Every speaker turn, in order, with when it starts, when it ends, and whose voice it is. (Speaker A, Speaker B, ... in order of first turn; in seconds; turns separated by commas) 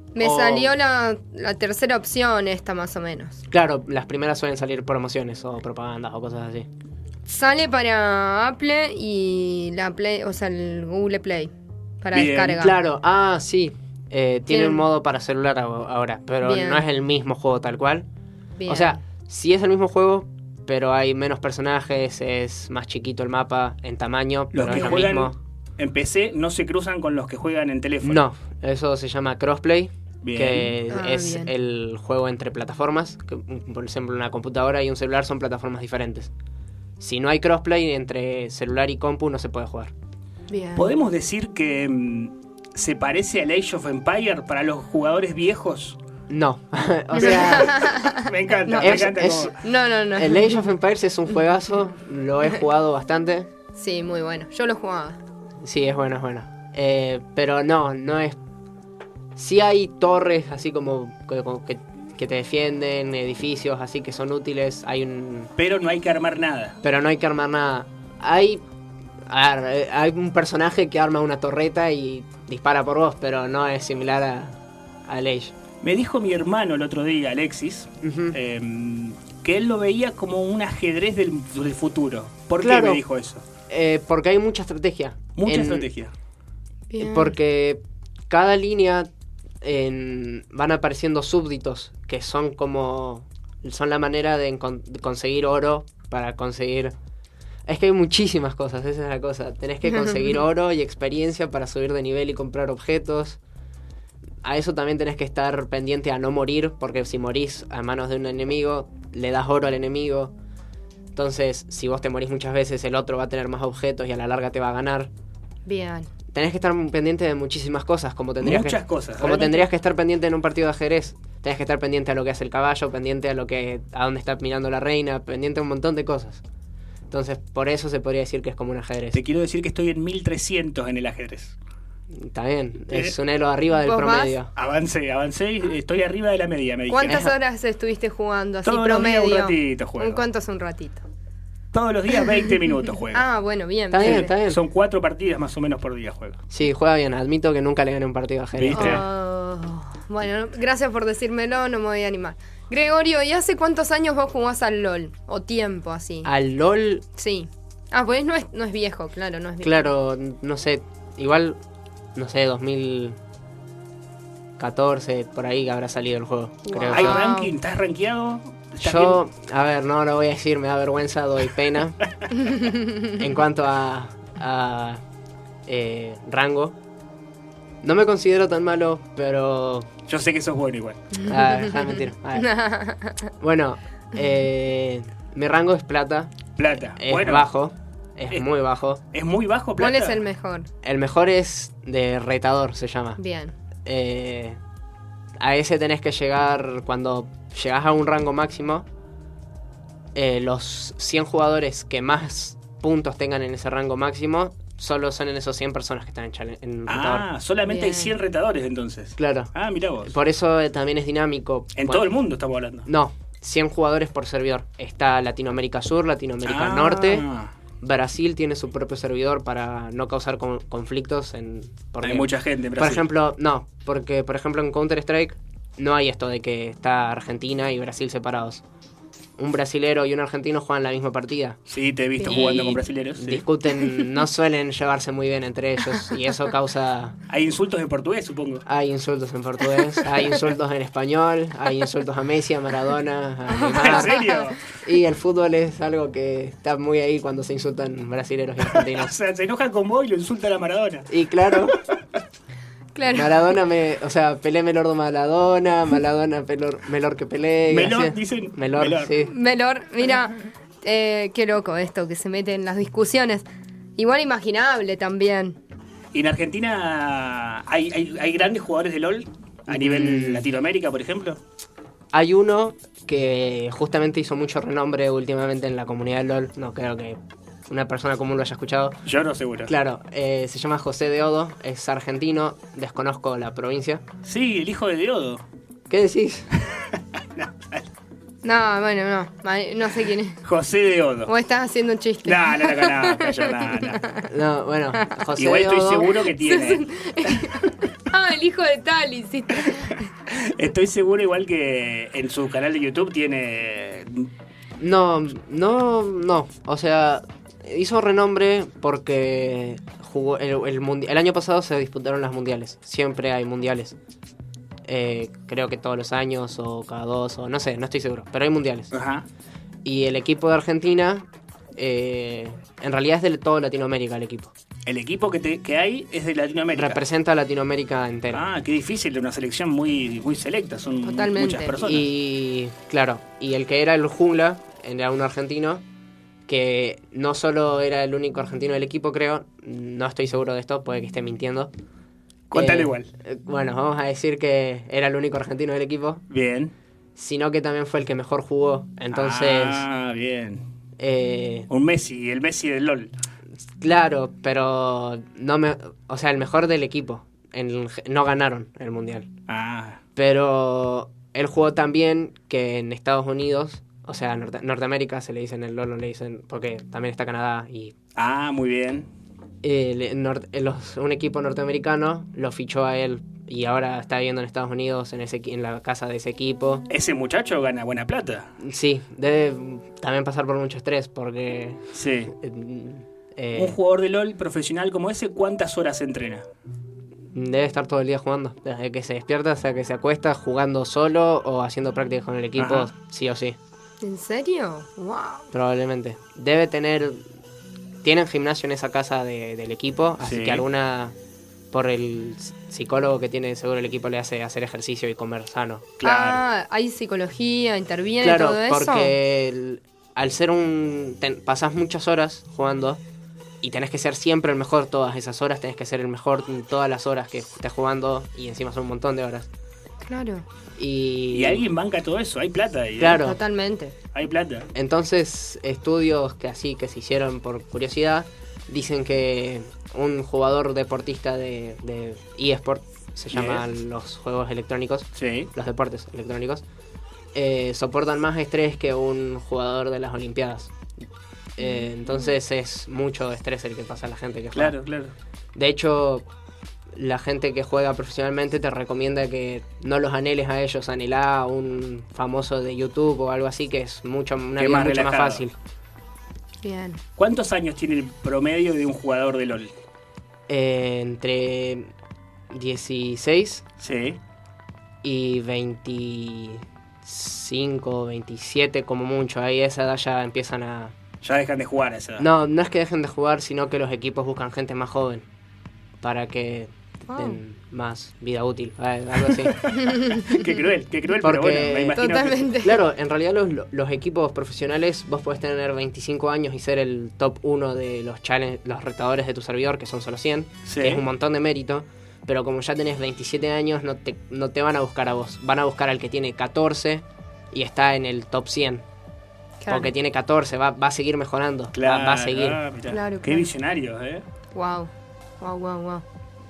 Speaker A: 0.1-3.4, Speaker B: 0.2-0.7, Speaker B: 3.5-6.7, Speaker A: 7.3-12.8, Speaker C: 12.1-12.6, Speaker B: 12.5-18.1, Speaker A: 14.5-14.8, Speaker A: 16.4-16.9, Speaker A: 18.6-19.0, Speaker B: 18.7-25.4, Speaker C: 24.5-28.2, Speaker B: 28.0-36.3, Speaker C: 30.2-30.7, Speaker A: 30.9-31.5, Speaker B: 37.0-39.9, Speaker A: 40.5-40.9, Speaker C: 40.8-46.0, Speaker B: 46.3-47.8, Speaker A: 47.1-50.7, Speaker C: 47.2-49.6, Speaker B: 48.8-49.5, Speaker B: 50.2-53.5, Speaker A: 53.8-55.2, Speaker B: 55.6-58.4, Speaker B: 59.4-65.5, Speaker C: 65.6-66.8, Speaker B: 66.8-68.6, Speaker B: 69.3-75.5, Speaker C: 75.8-83.5, Speaker B: 78.0-78.4, Speaker B: 82.6-83.0, Speaker B: 83.7-85.9, Speaker C: 85.4-86.1, Speaker A: 86.9-87.4, Speaker B: 87.0-89.1, Speaker B: 89.6-96.9, Speaker B: 97.7-103.4, Speaker A: 99.9-100.3, Speaker B: 104.4-110.3, Speaker B: 111.1-115.1, Speaker A: 115.7-116.1, Speaker B: 116.3-126.4, Speaker C: 118.4-119.6, Speaker B: 127.1-129.2, Speaker C: 129.1-131.6, Speaker B: 132.1-134.5, Speaker A: 133.8-134.4, Speaker C: 134.6-137.3, Speaker A: 136.9-141.0, Speaker C: 138.7-140.3, Speaker C: 141.7-143.2, Speaker A: 143.1-144.3, Speaker B: 143.9-144.6, Speaker C: 144.0-146.4, Speaker B: 146.5-149.0, Speaker C: 148.6-149.0, Speaker A: 148.7-156.3, Speaker B: 156.2-157.1, Speaker A: 157.2-159.9, Speaker B: 159.6-161.6, Speaker B: 162.2-163.2, Speaker B: 164.6-167.3, Speaker A: 166.7-167.6, Speaker C: 166.9-169.2, Speaker B: 168.8-172.0, Speaker A: 172.3-173.1, Speaker B: 173.1-175.0, Speaker B: 175.7-176.8, Speaker B: 177.8-179.9, Speaker C: 180.1-181.1, Speaker A: 181.2-183.3, Speaker B: 181.2-182.5, Speaker B: 183.4-186.3, Speaker C: 186.6-187.5, Speaker B: 187.0-189.0, Speaker C: 189.1-190.2, Speaker A: 189.8-190.7, Speaker B: 190.8-193.2, Speaker A: 193.2-193.5, Speaker B: 193.8-194.6, Speaker B: 195.4-198.9, Speaker B: 200.2-207.3, Speaker C: 206.9-210.1, Speaker A: 207.7-208.1, Speaker B: 209.2-209.5, Speaker B: 210.0-212.1, Speaker C: 211.8-212.9, Speaker B: 212.9-217.2, Speaker C: 216.4-217.5, Speaker B: 217.8-228.6, Speaker C: 222.0-223.1, Speaker B: 229.4-231.6, Speaker C: 231.7-233.4, Speaker A: 232.2-232.8, Speaker B: 232.2-237.2, Speaker C: 237.3-238.7, Speaker B: 238.7-244.2, Speaker A: 243.5-244.5, Speaker C: 243.7-244.6, Speaker B: 244.8-249.1, Speaker C: 248.7-251.8, Speaker B: 251.1-251.8, Speaker A: 252.9-253.4, Speaker B: 253.1-259.3, Speaker C: 257.7-259.1, Speaker A: 259.2-263.4, Speaker A: 264.0-265.6, Speaker C: 266.1-271.4, Speaker B: 269.7-270.5, Speaker B: 272.1-279.0, Speaker C: 279.1-279.7, Speaker B: 279.7-284.0, Speaker C: 284.2-285.4, Speaker B: 285.9-286.5, Speaker C: 286.6-287.9, Speaker A: 288.4-290.4, Speaker C: 290.4-291.3, Speaker A: 291.3-294.3, Speaker C: 292.2-294.0, Speaker B: 294.3-296.2, Speaker C: 295.4-297.6, Speaker A: 296.3-300.1, Speaker C: 300.3-304.3, Speaker B: 304.8-314.0, Speaker B: 314.9-318.9, Speaker C: 318.9-319.3, Speaker B: 319.9-324.5, Speaker C: 324.9-327.0, Speaker B: 326.8-328.4, Speaker C: 328.3-332.1, Speaker A: 331.0-331.8, Speaker B: 331.8-335.8, Speaker B: 336.5-341.7, Speaker C: 342.5-343.1, Speaker B: 342.5-346.2, Speaker C: 346.3-346.7, Speaker B: 347.2-349.9, Speaker C: 349.1-350.6, Speaker B: 351.0-351.7, Speaker C: 351.7-353.1, Speaker B: 353.8-359.3, Speaker C: 359.5-360.0, Speaker B: 360.2-367.9, Speaker C: 368.2-369.1, Speaker B: 369.6-376.9, Speaker C: 376.9-378.5, Speaker B: 378.6-383.8, Speaker C: 381.9-382.3, Speaker C: 383.6-386.4, Speaker B: 387.3-393.6, Speaker C: 392.6-392.9, Speaker A: 394.0-395.5, Speaker B: 395.5-397.2, Speaker B: 398.0-401.2, Speaker C: 400.2-400.6, Speaker B: 401.7-405.9, Speaker C: 406.0-406.4, Speaker A: 406.0-409.1, Speaker B: 408.2-413.0, Speaker B: 413.6-419.5, Speaker A: 420.0-420.4, Speaker B: 420.8-421.6, Speaker C: 421.3-423.2, Speaker B: 423.0-423.4, Speaker A: 423.2-423.9, Speaker C: 424.1-424.7, Speaker B: 424.7-436.6, Speaker C: 433.3-433.6, Speaker C: 435.2-435.5, Speaker B: 437.3-440.9, Speaker B: 441.6-444.8, Speaker A: 441.6-441.9, Speaker C: 444.6-445.1, Speaker B: 445.6-446.3, Speaker B: 446.9-455.6, Speaker C: 454.6-455.4, Speaker A: 456.6-457.0, Speaker C: 457.2-459.7, Speaker B: 460.5-461.9, Speaker B: 462.5-463.6, Speaker C: 463.8-464.2, Speaker B: 465.0-470.9, Speaker C: 471.2-472.3, Speaker B: 472.2-475.3, Speaker B: 476.0-479.7, Speaker A: 477.1-477.4, Speaker C: 479.3-482.5, Speaker A: 479.7-480.6, Speaker B: 481.2-482.0, Speaker A: 481.9-482.8, Speaker B: 482.6-498.9, Speaker C: 490.7-491.0, Speaker A: 499.6-499.9, Speaker B: 499.7-502.6, Speaker C: 501.8-504.2, Speaker A: 502.9-503.5, Speaker A: 504.5-506.0